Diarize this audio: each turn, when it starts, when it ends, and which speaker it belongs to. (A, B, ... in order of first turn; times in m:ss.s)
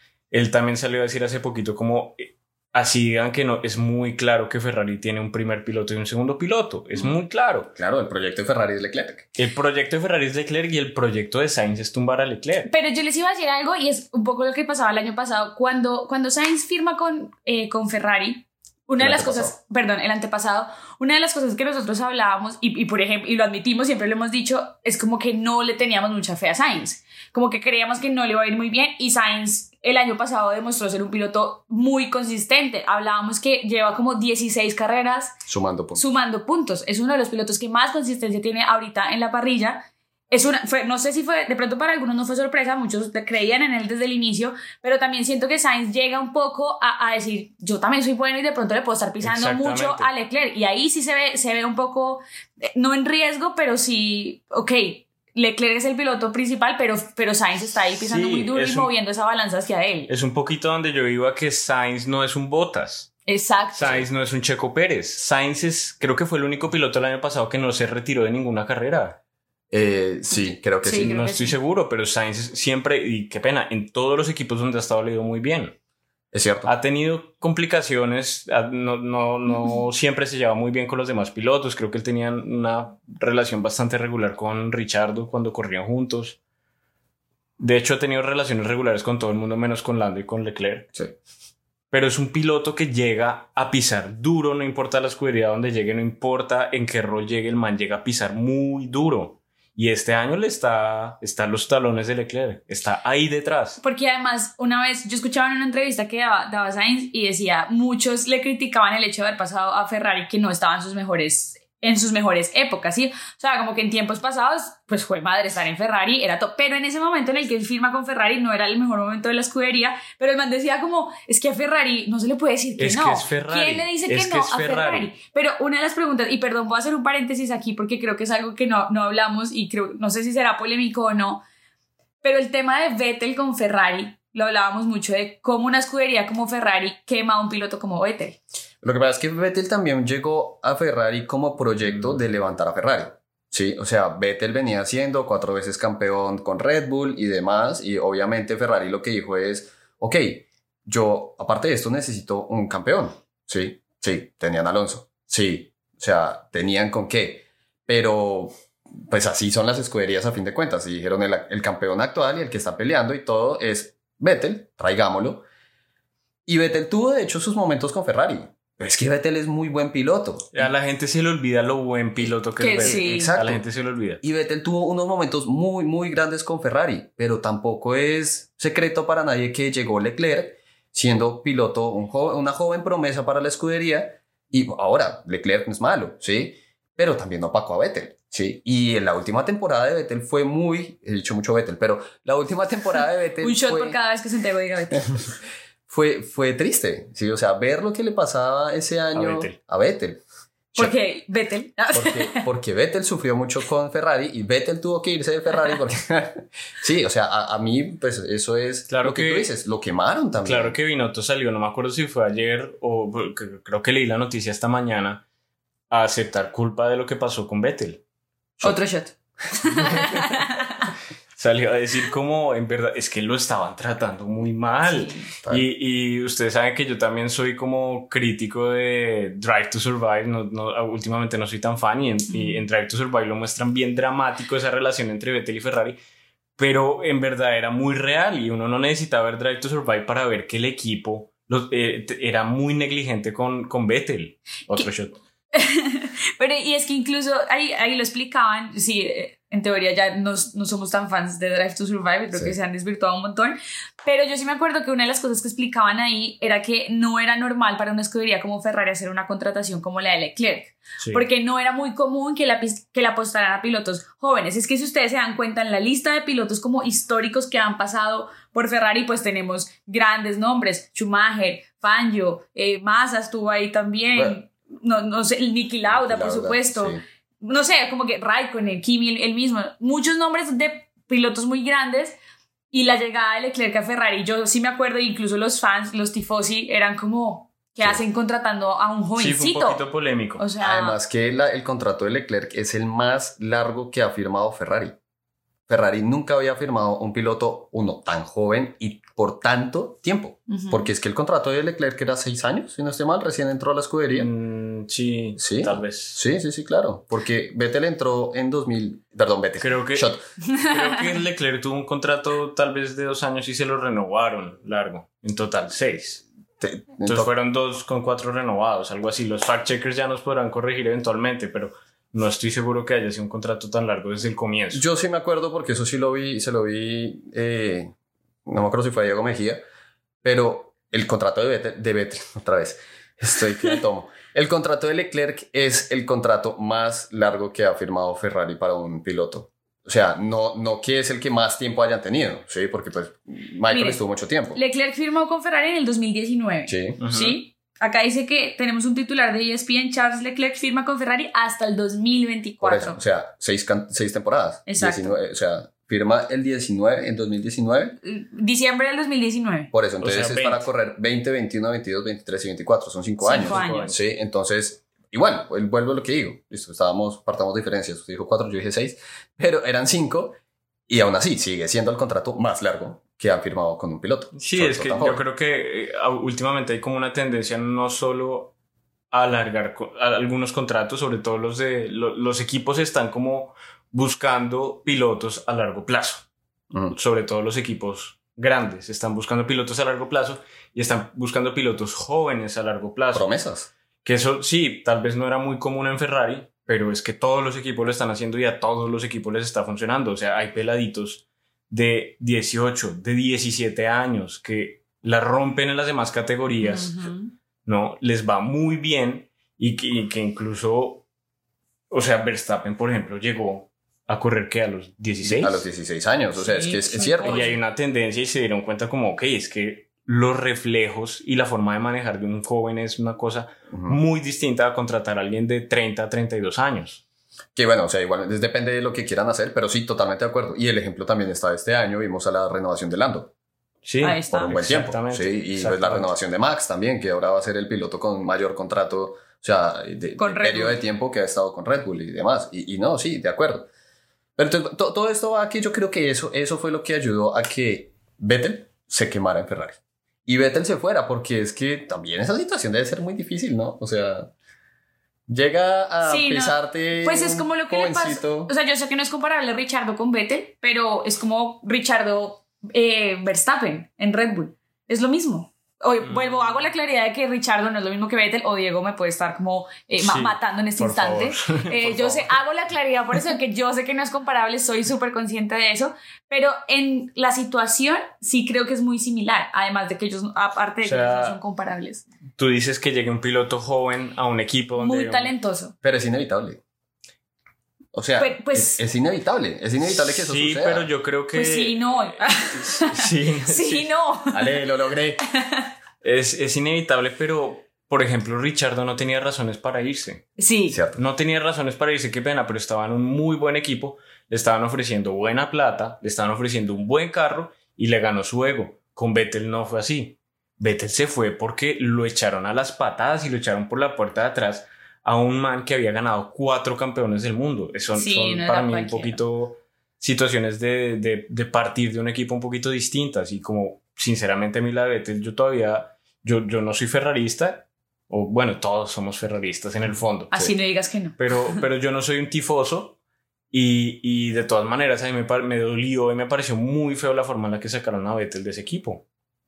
0:00.3-0:07.7 A
0:07.8-0:09.3 B
0:09.4-0:12.7 A
0:12.7-0:35.4 C
0:19.0-0:19.5 B
0:35.5-0:36.1 B
0:36.0-1:00.1 C
0:49.2-0:50.1 A
0:58.0-0:58.9 A
1:00.1-1:03.1 A
1:03.3-1:04.0 C
1:03.8-1:09.2 A
1:09.7-1:11.2 B
1:10.8-1:11.6 C
1:11.0-1:15.8 A
1:16.3-1:16.7 B
1:16.7-1:26.4 A
1:27.6-1:30.9 A
1:31.9-1:43.8 A
1:43.8-2:11.4 C
2:02.8-2:05.1 A
2:12.2-2:18.4 C
2:18.8-2:45.4 B
2:46.5-2:50.7 B
2:50.5-2:54.2 A
2:52.6-2:53.3 C
2:52.7-2:53.6 B
2:54.2-3:14.0 B
3:13.4-3:15.2 C
3:15.9-3:20.2 B
3:19.1-3:19.6 A
3:20.8-3:22.4 C
3:21.9-3:30.8 B
3:28.9-3:29.5 A
3:30.4-3:35.2 A
3:35.9-3:38.0 A
3:38.6-3:40.8 C
3:39.8-3:40.2 B
3:41.4-3:56.0 A
3:44.8-3:45.3 C
3:52.3-3:52.6 C
3:56.6-4:05.2 A
4:05.5-4:42.2 C
4:35.9-4:37.0 B
4:42.7-4:49.8 C
4:49.2-4:50.4 A
4:50.4-4:51.0 C
4:50.6-4:55.0 B
4:55.7-5:04.3 B
5:00.5-5:00.8 C
5:04.1-5:06.2 A
5:05.4-5:10.2 B
5:09.6-5:16.2 A
5:16.6-5:17.3 B
5:17.0-5:24.8 A
5:24.7-5:27.9 B
5:28.5-5:29.6 B
5:30.2-5:44.6 B
5:43.7-5:44.0 C
5:44.5-5:53.0 C
5:46.7-5:47.0 B
5:47.0-5:47.4 A
5:52.6-5:58.0 B
5:54.7-5:55.2 C
5:58.0-5:59.7 C
5:59.7-6:15.2 B
6:00.0-6:00.7 A
6:03.2-6:04.0 C
6:03.4-6:04.0 A
6:14.4-6:18.5 A
6:19.1-6:26.2 A
6:26.7-6:27.0 B
6:26.9-6:33.3 A
6:33.1-6:33.7 B
6:34.0-6:47.0 A
6:46.6-6:47.3 C
6:47.7-6:51.0 A
6:51.9-6:55.6 A
6:55.2-6:57.5 B
6:56.4-6:57.6 C
6:57.2-7:07.0 A
7:03.7-7:04.0 B
7:07.6-7:13.3 B
7:13.9-7:16.1 A
7:14.0-7:14.5 C
7:14.3-7:23.7 B
7:20.2-7:20.8 C
7:24.4-7:34.3 B
7:35.3-7:38.5 B
7:36.0-8:02.0 C
7:46.0-7:46.4 A
7:50.0-7:52.4 A
8:00.8-8:01.4 A
8:02.4-8:05.3 A
8:04.8-8:05.7 C
8:05.8-8:06.6 B
8:07.9-8:10.9 B
8:08.2-8:08.8 C
8:09.8-8:13.9 A
8:11.3-8:14.5 C
8:14.3-8:15.2 B
8:15.4-8:15.7 C
8:16.0-8:20.3 A
8:20.4-8:20.8 C
8:20.7-8:21.0 B
8:21.0-8:50.3 A
8:38.0-8:39.2 C
8:50.3-8:51.6 C
8:51.2-8:53.0 A
8:53.5-8:59.0 A